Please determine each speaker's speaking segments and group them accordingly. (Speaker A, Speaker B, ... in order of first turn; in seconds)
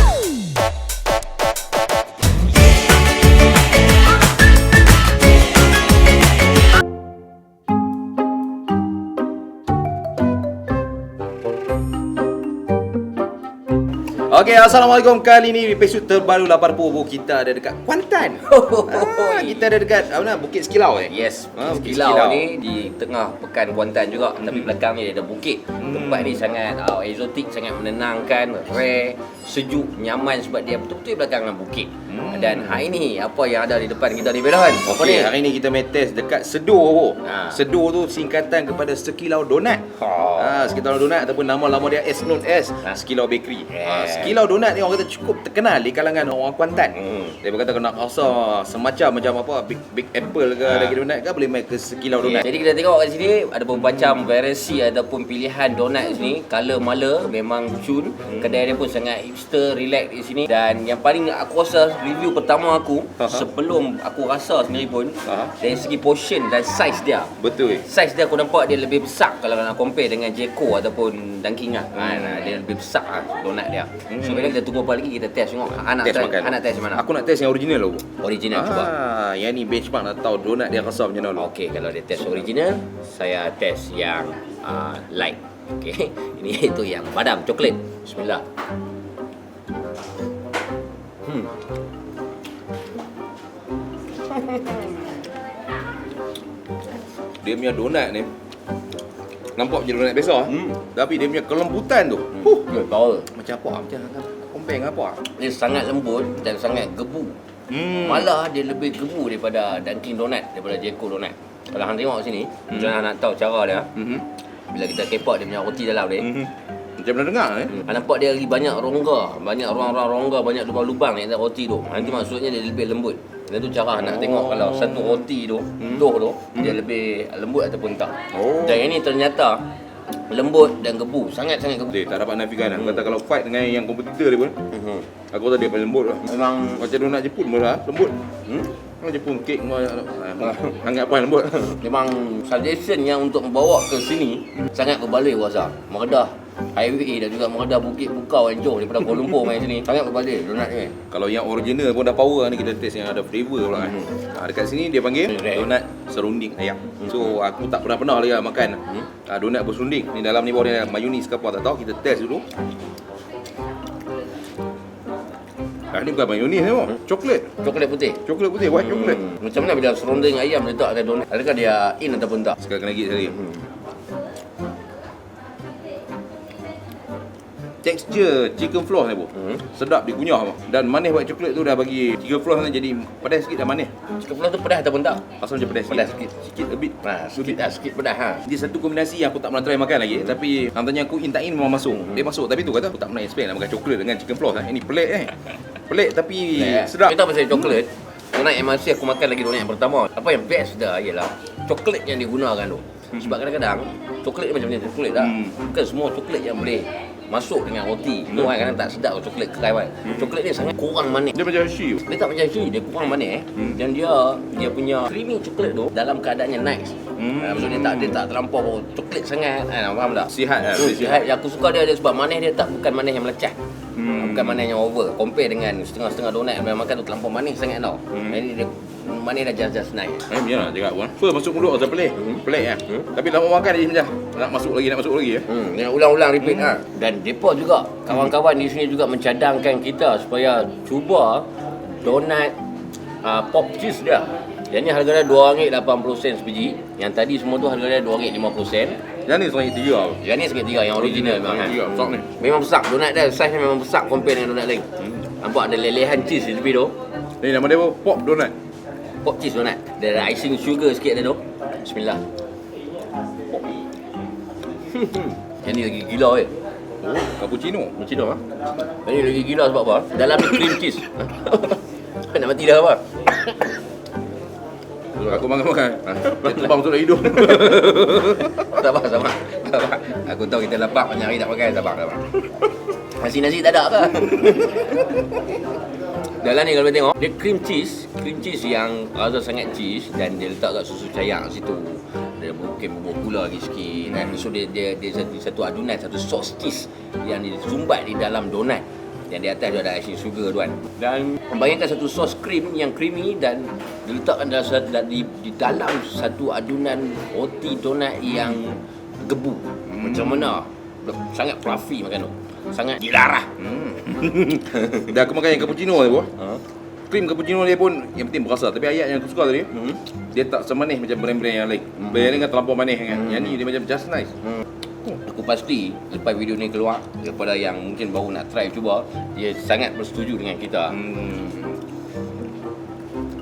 Speaker A: 14.3-22.5, 25.8-26.2, 32.2-32.6, 34.8-39.8, 40.3-52.5, 67.4-67.8, 74.1-74.5, 76.0-81.5, 97.4-98.3, 99.5-102.5, 103.3-105.2, 107.7-108.2, 114.0-114.2, 116.2-117.8, 124.2-124.8, 128.3-128.8, 131.9-134.6, 135.3-138.2, 139.0-141.8, 151.1-162.5, 165.9-167.5, 168.2-169.2, 172.6-173.4, 177.8-183.9, 185.4-187.6, 188.4-197.2, 211.3-212.0, 217.2-218.2, 220.3-221.3, 223.9-224.6, 230.3-235.5, 249.2-250.2, 251.0-252.2, 257.4-258.5, 267.0-267.9, 275.2-278.6, 309.9-310.5, 313.6-316.3, 317.1-324.3, 330.9-331.8
Speaker B: 18.5-19.7, 21.1-35.3, 37.3-37.5, 40.0-40.5, 43.7-44.3, 47.0-47.3, 52.2-77.0, 78.2-78.9, 81.4-88.4, 91.2-91.5, 94.2-95.0, 100.5-100.8, 102.3-103.3, 105.2-113.9, 114.7-116.3, 117.7-129.7, 130.3-132.0, 134.7-135.1, 136.2-136.8, 138.5-138.7, 141.6-151.0, 167.6-168.2, 168.9-172.6, 179.3-179.6, 184.2-185.2, 185.9-186.3, 187.0-188.4, 196.5-211.4, 212.0-230.3, 235.5-241.5, 242.0-242.6, 243.2-249.0, 250.2-256.9, 259.2-262.2, 263.5-263.8, 264.9-266.5, 268.0-273.6, 277.5-285.3, 286.4-313.5, 325.2-331.0